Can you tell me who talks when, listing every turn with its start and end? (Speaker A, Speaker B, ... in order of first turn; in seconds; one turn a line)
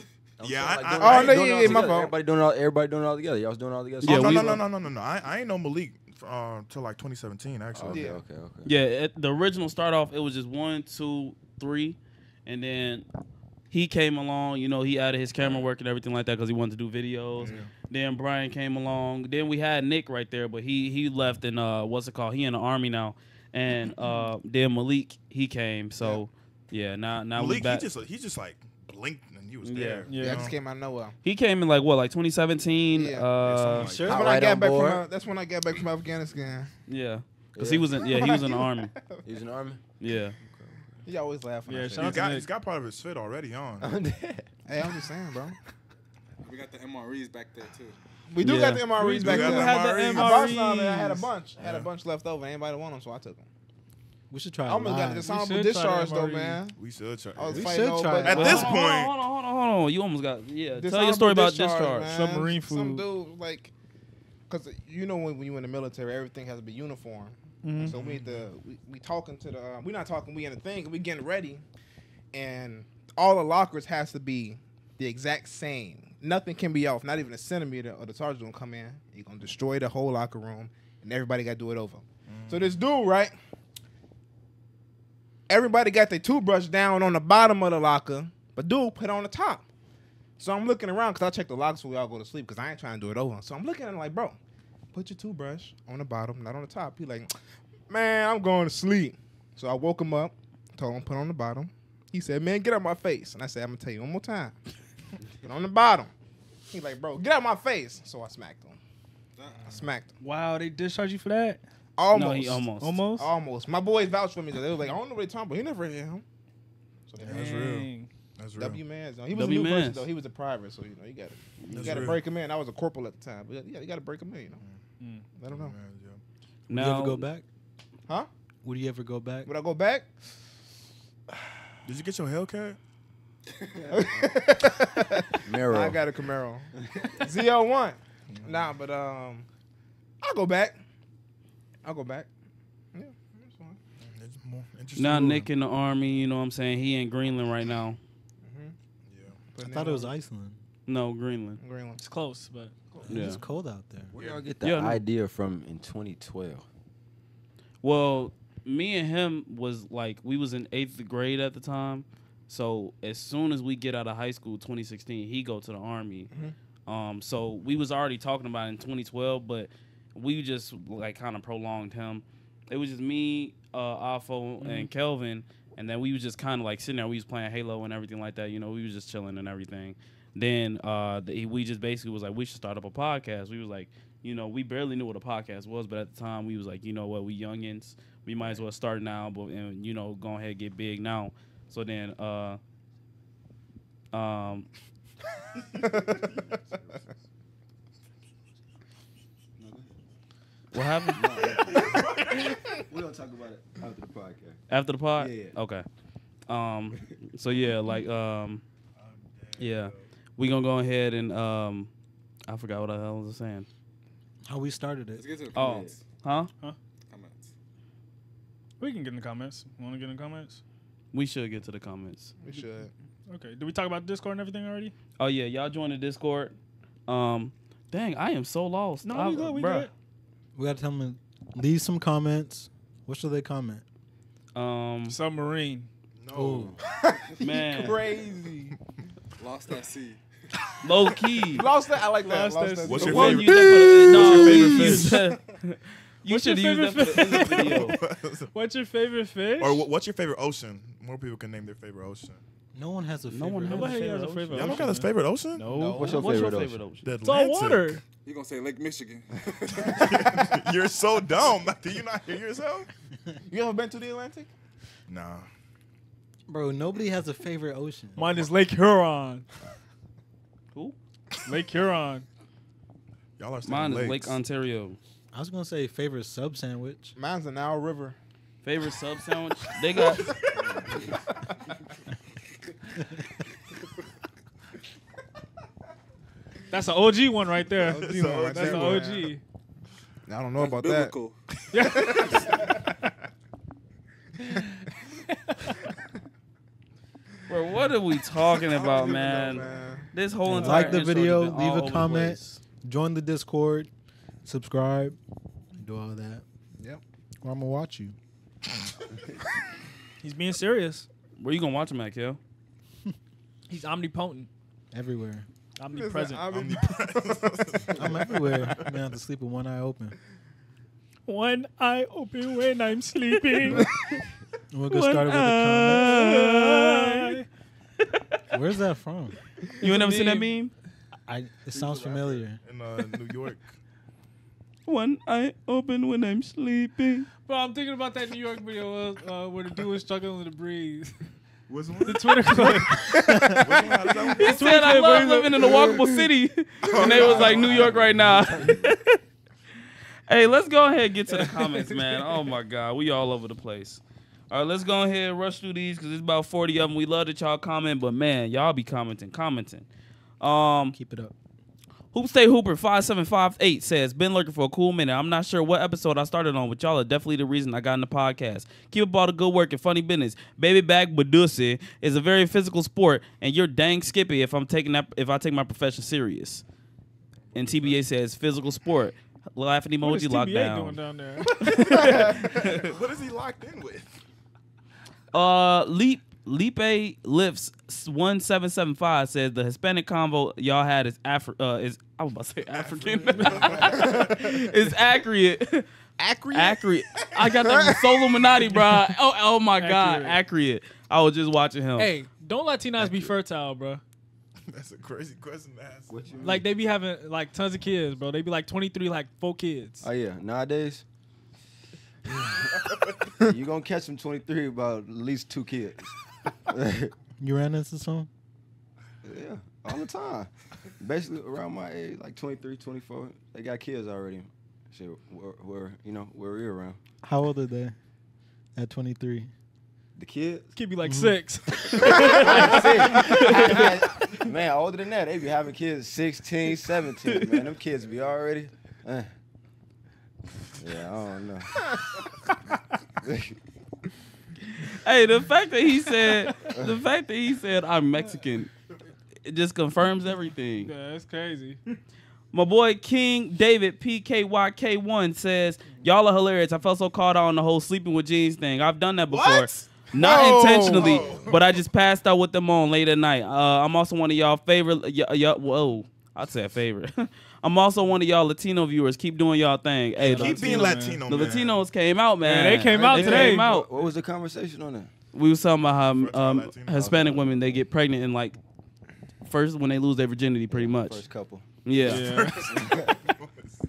Speaker A: 0.4-4.7
Speaker B: 0.4-1.9
Speaker C: 0.9-2.1
Speaker D: 4.0-4.6
Speaker B: 4.0-8.1
Speaker A: 7.7-8.7
Speaker C: 7.9-8.2
Speaker D: 8.6-13.1
Speaker D: 13.7-27.9
Speaker A: 15.4-15.7
Speaker B: 17.4-17.7
Speaker B: 27.3-30.5
Speaker D: 29.6-30.1
Speaker E: 30.1-30.5
Speaker C: 30.2-31.1
Speaker D: 31.2-33.9
Speaker C: 32.9-33.3
Speaker B: 33.4-34.1
Speaker A: 33.8-35.0
Speaker F: 33.8-34.2
Speaker C: 34.0-36.7
Speaker D: 36.9-38.9
Speaker A: 37.5-37.9
Speaker C: 38.0-39.2
Speaker A: 39.2-39.8
Speaker D: 40.0-40.3
Speaker C: 41.0-42.3
Speaker E: 41.7-42.5
Speaker B: 42.0-43.9
Speaker A: 43.8-44.5
Speaker C: 44.6-45.6
Speaker G: 46.4-48.0
Speaker C: 48.3-53.5
Speaker D: 48.4-49.7
Speaker E: 48.5-51.3
Speaker B: 49.2-50.5
Speaker B: 51.6-51.9
Speaker F: 54.3-55.3
Speaker C: 54.7-56.8
Speaker E: 55.2-56.6
Speaker B: 56.7-59.1
Speaker C: 57.4-58.8
Speaker F: 57.5-58.6
Speaker D: 58.3-62.1
Speaker C: 60.8-63.7
Speaker E: 62.1-63.0
Speaker C: 64.5-71.6
Speaker E: 67.6-68.0
Speaker C: 72.3-83.3
Speaker B: 82.3-82.8
Speaker C: 85.5-89.7
Speaker C: 90.4-94.4
Speaker C: 94.9-97.3
Speaker C: 97.9-104.5
Speaker C: 105.4-106.1
Speaker C: 106.7-108.8
Speaker C: 109.6-110.1
Speaker E: 110.2-111.6
Speaker C: 112.0-116.2
Speaker D: 112.1-113.0
Speaker E: 112.8-113.3
Speaker C: 117.1-117.5
Speaker E: 117.2-118.1
Speaker B: 117.2-118.8
Speaker C: 118.5-124.6
Speaker D: 119.3-120.0
Speaker D: 121.6-122.1
Speaker B: 121.7-122.2
Speaker E: 125.0-125.2
Speaker C: 125.3-125.7
Speaker B: 125.5-126.2
Speaker D: 126.7-127.3
Speaker F: 126.7-127.4
Speaker F: 128.6-129.5
Speaker C: 129.4-130.1
Speaker B: 131.8-132.8
Speaker A: 133.8-134.1
Speaker C: 133.9-139.4
Speaker A: 135.4-136.0
Speaker A: 136.8-137.1
Speaker B: 138.3-138.6
Speaker C: 140.2-140.8
Speaker C: 141.8-142.3
Speaker C: 142.9-143.8
Speaker B: 144.0-145.5
Speaker D: 144.9-148.0
Speaker C: 148.4-148.7
Speaker B: 149.1-149.4
Speaker C: 149.5-150.1
Speaker F: 149.6-150.6
Speaker D: 150.9-151.6
Speaker C: 151.6-152.0
Speaker E: 152.0-152.8
Speaker F: 153.0-154.2
Speaker D: 153.1-153.4
Speaker B: 154.2-154.4
Speaker A: 154.2-156.7
Speaker D: 154.6-155.0
Speaker D: 157.8-166.3
Speaker D: 166.9-192.6
Speaker E: 174.6-174.9
Speaker D: 194.1-194.7
Speaker C: 195.8-196.5
Speaker A: 199.6-199.9
Speaker D: 200.7-201.2
Speaker A: 201.1-204.6
Speaker B: 201.5-202.4
Speaker D: 204.7-205.8
Speaker A: 205.2-205.5
Speaker D: 206.5-208.6
Speaker B: 208.9-210.0
Speaker D: 209.6-211.9
Speaker D: 212.5-213.7
Speaker F: 214.4-215.4
Speaker G: 215.2-216.0
Speaker A: 215.5-216.0
Speaker D: 215.5-216.5
Speaker G: 217.1-217.5
Speaker E: 218.8-220.6
Speaker D: 221.1-222.3
Speaker C: 222.4-222.9
Speaker E: 223.3-224.9
Speaker D: 225.2-226.5
Speaker D: 227.1-229.9
Speaker E: 229.0-229.9
Speaker F: 230.5-233.8
Speaker D: 234.5-235.2
Speaker E: 235.1-235.9
Speaker B: 236.2-236.6
Speaker F: 236.3-236.8
Speaker C: 236.9-238.8
Speaker D: 237.4-238.0
Speaker G: 239.4-240.2
Speaker D: 240.8-241.7
Speaker C: 241.5-243.6
Speaker E: 242.2-245.2
Speaker B: 242.8-245.2
Speaker D: 243.0-248.0
Speaker E: 246.2-249.9
Speaker B: 247.4-248.5
Speaker B: 249.6-252.4
Speaker F: 252.7-254.1
Speaker D: 253.3-254.8
Speaker E: 253.7-256.2
Speaker B: 254.5-255.7
Speaker C: 255.7-256.4
Speaker A: 255.9-256.8
Speaker D: 255.9-257.1
Speaker B: 257.0-258.0
Speaker E: 257.2-258.0
Speaker G: 258.2-260.1
Speaker B: 259.7-262.9
Speaker C: 263.5-264.5
Speaker B: 265.1-265.5
Speaker F: 266.5-268.4
Speaker E: 268.2-269.4
Speaker E: 271.4-272.2
Speaker B: 273.4-274.4
Speaker D: 273.6-275.0
Speaker F: 275.3-277.1
Speaker C: 277.2-278.1
Speaker D: 278.6-280.2
Speaker B: 280.1-280.6
Speaker A: 280.6-280.9
Speaker E: 286.7-289.4
Speaker C: 287.8-289.3
Speaker B: 287.8-289.2
Speaker C: 290.3-291.1
Speaker G: 290.6-291.4
Speaker E: 291.7-292.5
Speaker B: 291.8-292.1
Speaker C: 291.8-292.9
Speaker D: 297.5-302.6
Speaker C: 298.6-300.1
Speaker F: 300.4-303.9
Speaker F: 304.4-305.1
Speaker F: 305.8-306.4
Speaker F: 307.4-308.1
Speaker E: 310.2-311.1
Speaker D: 311.4-312.4
Speaker E: 313.7-314.5
Speaker F: 314.9-315.4
Speaker E: 315.8-316.6
Speaker C: 315.9-318.7
Speaker B: 316.5-318.8
Speaker F: 317.9-320.1
Speaker E: 321.2-323.9
Speaker F: 324.7-326.2
Speaker E: 324.9-327.4
Speaker D: 325.8-327.3
Speaker F: 328.5-329.4
Speaker D: 329.8-330.7
Speaker E: 329.8-330.5
Speaker F: 331.3-332.6
Speaker B: 332.6-333.7
Speaker D: 334.9-337.3
Speaker E: 337.4-341.3
Speaker B: 341.7-345.2
Speaker E: 342.0-343.2
Speaker C: 342.6-344.5
Speaker E: 344.3-345.8
Speaker D: 344.4-349.1
Speaker B: 346.9-348.0
Speaker C: 346.9-347.5
Speaker A: 347.1-348.9
Speaker D: 350.3-359.9
Speaker C: 351.3-352.2
Speaker D: 360.4-360.9
Speaker F: 360.9-361.3
Speaker D: 362.1-376.6
Speaker B: 377.5-378.0
Speaker D: 377.5-381.0
Speaker E: 380.0-381.6
Speaker B: 381.6-384.2
Speaker D: 381.6-382.2
Speaker C: 381.8-382.6
Speaker D: 385.3-395.9
Speaker B: 392.9-394.3
Speaker E: 393.4-393.9
Speaker C: 393.7-394.4
Speaker C: 396.2-398.4
Speaker D: 396.5-402.1
Speaker E: 399.8-400.4
Speaker E: 401.9-404.0
Speaker B: 404.7-406.1
Speaker A: 406.1-406.6
Speaker E: 406.4-410.0
Speaker A: 410.0-411.0
Speaker A: 412.2-416.1
Speaker A: 416.6-417.1
Speaker F: 417.4-418.3
Speaker A: 419.2-427.0
Speaker F: 427.2-427.9
Speaker F: 428.8-429.5
Speaker A: 430.1-430.7
Speaker E: 430.8-433.9
Speaker F: 431.0-431.9
Speaker A: 432.0-439.3
Speaker A: 440.8-441.7
Speaker A: 443.2-443.5
Speaker D: 444.7-448.7
Speaker E: 446.3-446.7
Speaker A: 446.7-447.0
Speaker D: 449.4-450.9
Speaker E: 450.8-451.8
Speaker D: 452.5-473.9
Speaker B: 459.3-460.1
Speaker C: 460.1-461.4
Speaker B: 460.8-461.8
Speaker E: 470.2-471.3
Speaker B: 470.2-471.8
Speaker E: 472.4-473.6
Speaker C: 472.9-473.6
Speaker A: 473.2-475.1
Speaker D: 475.3-478.6
Speaker B: 476.1-477.3
Speaker A: 476.9-477.6
Speaker D: 479.4-481.2
Speaker A: 480.7-481.6
Speaker D: 481.8-482.4
Speaker E: 482.0-482.8
Speaker B: 482.1-483.8
Speaker A: 482.7-483.2